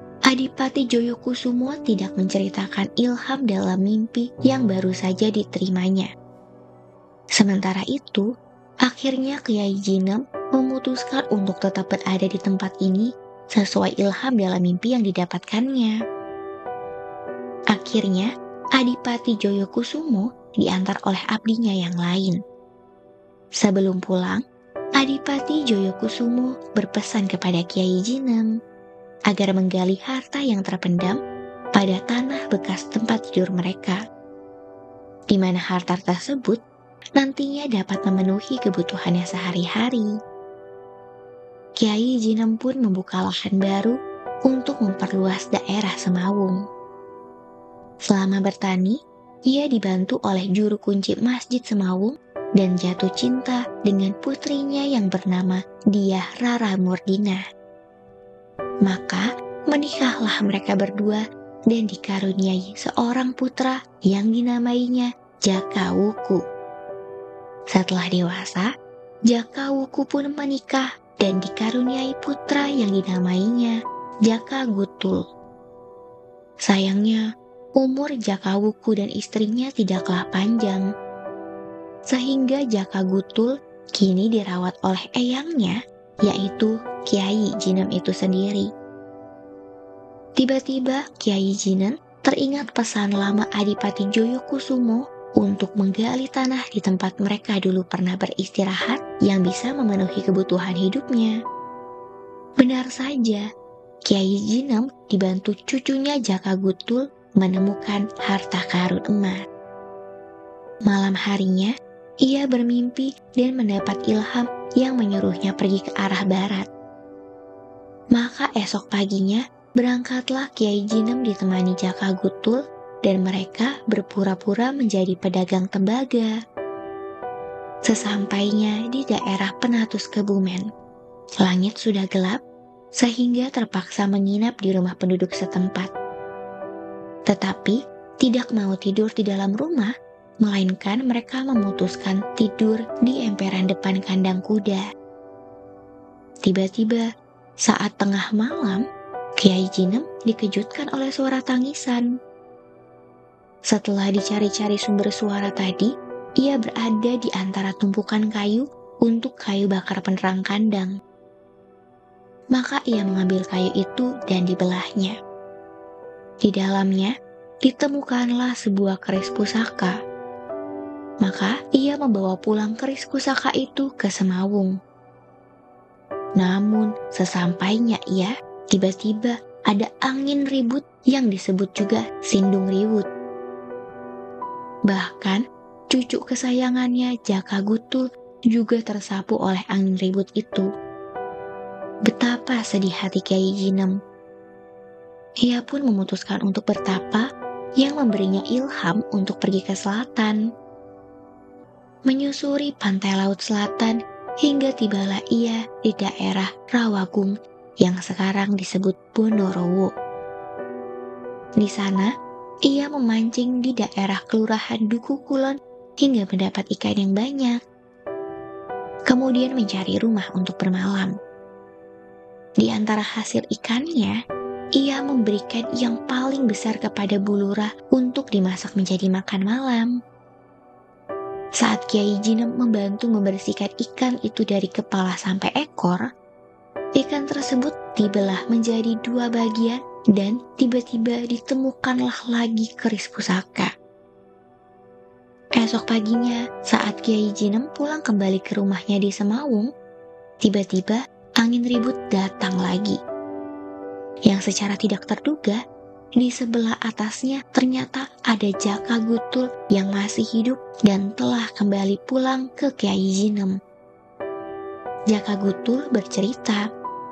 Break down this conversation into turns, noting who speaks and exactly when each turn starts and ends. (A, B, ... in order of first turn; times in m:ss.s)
0:00.3-0:06.1 A
0:07.4-0:08.2 A
0:08.9-0:16.0 A
0:17.7-0:22.4 A
0:23.6-0:24.4 A
0:25.0-0:28.5 A
0:29.3-0:31.2 A
0:31.8-0:34.0 A
0:35.3-0:36.6 A
0:37.2-0:40.1 A
0:41.8-0:43.9 A
0:44.5-0:46.6 A
0:48.1-0:49.0 A
0:49.5-0:57.4 A
0:58.9-1:06.4 A
1:07.7-1:08.7 A
1:09.3-1:13.8 A
1:14.3-1:15.2 A
1:16.7-1:17.2 A
1:17.8-1:20.9 A
1:22.1-1:28.7 A
1:30.4-1:41.3 A
1:42.6-1:43.4 A
1:44.1-1:49.4 A
1:50.9-1:51.7 A
1:52.2-1:56.6 A
1:58.2-2:06.3 A
2:07.9-2:10.6 A
2:11.4-2:12.4 A
2:13.0-2:15.9 A
2:17.3-2:19.9 A
2:20.4-2:24.8 A
2:26.5-2:27.0 A
2:27.7-2:28.8 A
2:29.4-2:32.1 A
2:33.7-2:35.9 A
2:36.4-2:40.9 A
2:42.6-2:45.1 A
2:46.5-2:47.1 A
2:47.6-2:50.0 A
2:51.2-2:54.7 A
2:56.4-3:03.1 A
3:04.9-3:05.4 A
3:05.9-3:10.7 A
3:12.1-3:13.9 A
3:15.4-3:17.2 A
3:17.8-3:20.4 A
3:22.1-3:27.3 A
3:27.8-3:29.9 A
3:31.6-3:32.1 A
3:32.7-3:37.6 A
3:39.1-3:41.1 A
3:42.6-3:44.2 A
3:44.8-3:49.9 A
3:51.6-3:56.0 A
3:57.0-4:03.7 A
4:05.6-4:09.7 A
4:10.4-4:13.0 A
4:14.3-4:15.6 A
4:16.2-4:23.6 A
4:25.1-4:26.6 A